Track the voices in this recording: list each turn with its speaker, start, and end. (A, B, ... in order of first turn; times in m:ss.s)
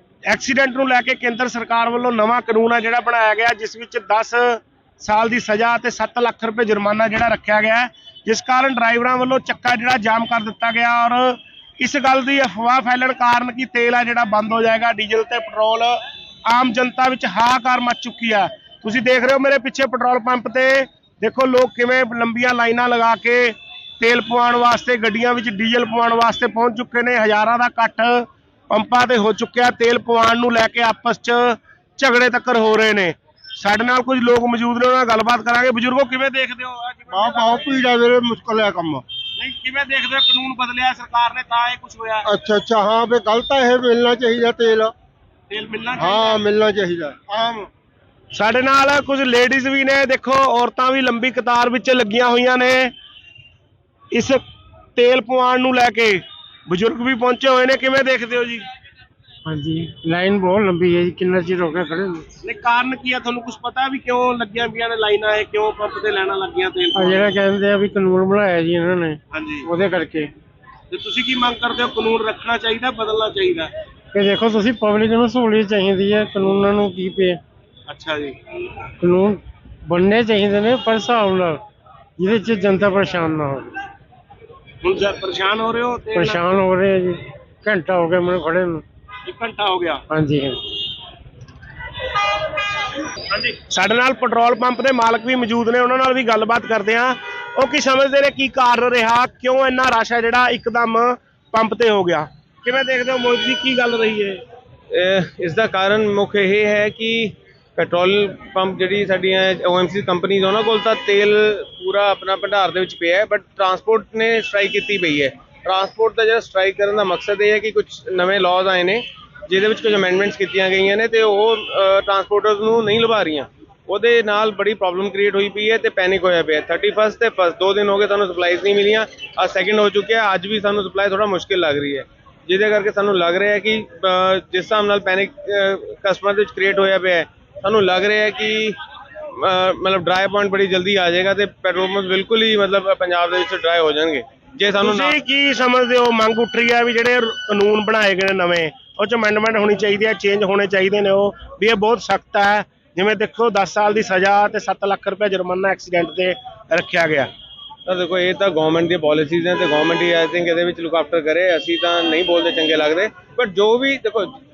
0:00.3-0:37.8 A
0:37.1-0:39.0 B
0:39.4-0:42.3 A
0:42.3-0:44.9 B
0:45.5-0:46.5 A
0:46.0-0:47.5 B
0:47.3-0:47.7 A
0:48.3-0:52.9 A
0:54.1-0:54.4 A
0:55.0-0:58.6 A
0:59.4-1:02.3 C
1:02.4-1:07.4 A
1:06.9-1:10.3 C
1:09.3-1:09.7 A
1:10.9-1:13.7 A
1:14.1-1:17.4 C
1:17.9-1:18.4 A
1:19.0-1:21.6 C
1:22.2-1:23.8 C
1:24.8-1:26.4 A
1:26.1-1:28.8 C
1:29.2-1:30.0 A
1:30.1-1:30.6 C
1:33.3-1:44.4 A
1:44.9-2:18.8 D
2:19.3-2:25.2 D
2:24.8-2:37.3 A
2:37.9-2:44.4 D